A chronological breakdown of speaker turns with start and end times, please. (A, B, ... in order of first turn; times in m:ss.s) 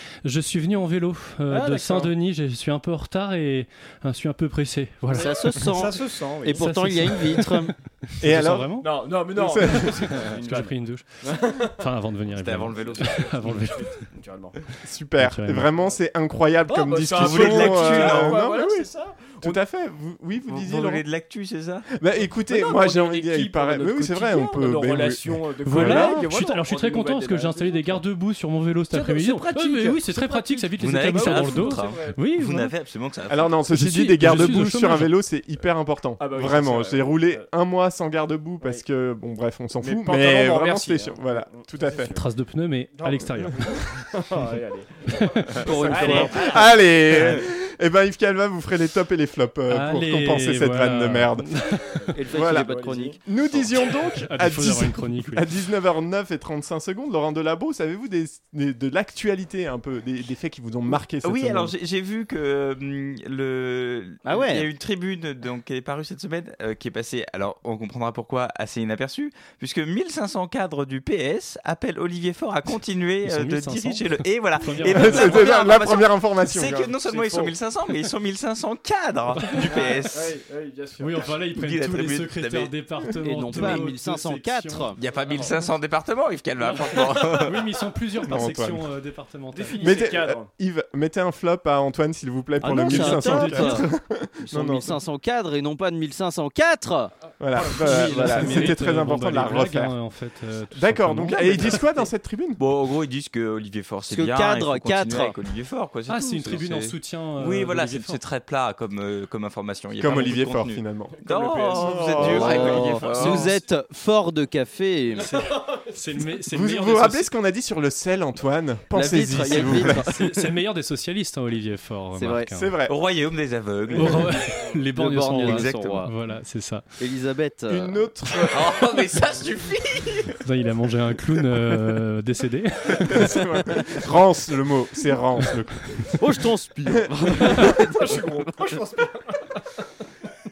0:00.2-0:05.6 A
0:01.5-0:02.1 B
0:05.1-0:06.8 B
0:05.1-0:07.7 C
0:06.5-0:08.9 A
0:08.2-0:10.2 D
0:08.8-0:11.8 B
0:09.6-0:14.0 A
0:12.4-0:13.3 E
0:12.9-0:14.6 B
0:14.8-0:18.9 D
0:15.2-0:15.7 A
0:16.7-0:19.6 B
0:17.2-0:18.4 E
0:19.4-0:21.0 D
0:20.5-0:21.9 E
0:22.0-0:26.1 D
0:22.5-0:28.0 B
0:25.6-0:32.7 A
0:28.9-0:32.2 B
0:30.8-0:33.6 E
0:33.3-0:42.1 D
0:33.7-0:35.2 A
0:36.2-0:37.5 B
0:39.8-0:42.2 B
0:42.1-0:43.6 A
0:43.0-0:45.3 B
0:45.1-0:46.3 A
0:45.6-0:51.5 D
0:45.7-0:46.5 C
0:45.9-0:46.8 B
0:47.0-0:47.4 A
0:49.7-0:52.1 A
0:52.0-0:53.2 B
0:52.1-0:53.2 C
0:52.3-1:01.7 D
0:54.1-0:55.5 A
1:01.2-1:20.4 E
1:04.2-1:04.7 C
1:13.2-1:15.5 A
1:14.9-1:16.9 D
1:17.1-1:17.5 B
1:19.4-1:19.7 A
1:19.6-1:21.4 B
1:21.0-1:25.5 A
1:21.5-1:22.7 E
1:23.2-1:25.0 C
1:25.0-1:27.6 E
1:26.6-1:27.6 B
1:27.4-1:30.0 A
1:28.3-1:28.9 D
1:29.5-1:30.5 B
1:29.8-1:35.0 D
1:32.6-1:33.9 C
1:32.9-1:33.8 A
1:34.4-1:37.1 C
1:37.4-1:39.9 D
1:37.6-1:38.5 B
1:37.8-1:41.9 A
1:37.9-1:38.5 C
1:40.8-1:42.6 D
1:42.6-1:53.6 E
1:44.1-1:45.4 C
1:46.1-1:48.2 A
1:50.0-1:51.2 D
1:51.2-1:53.4 B
1:51.7-1:52.8 D
1:52.2-1:55.4 C
1:55.2-1:57.3 A
1:56.5-2:00.1 D
1:58.9-2:00.6 C
1:59.7-2:02.7 A
2:02.1-2:02.5 C
2:02.6-2:02.9 D
2:02.9-2:04.4 E
2:03.9-2:06.8 A
2:05.0-2:06.1 C
2:05.4-2:06.0 E
2:07.0-2:08.0 C
2:07.7-2:08.8 D
2:08.5-2:10.3 E
2:10.4-2:13.9 A
2:13.0-2:16.1 D
2:16.2-2:18.8 C
2:18.0-2:19.5 B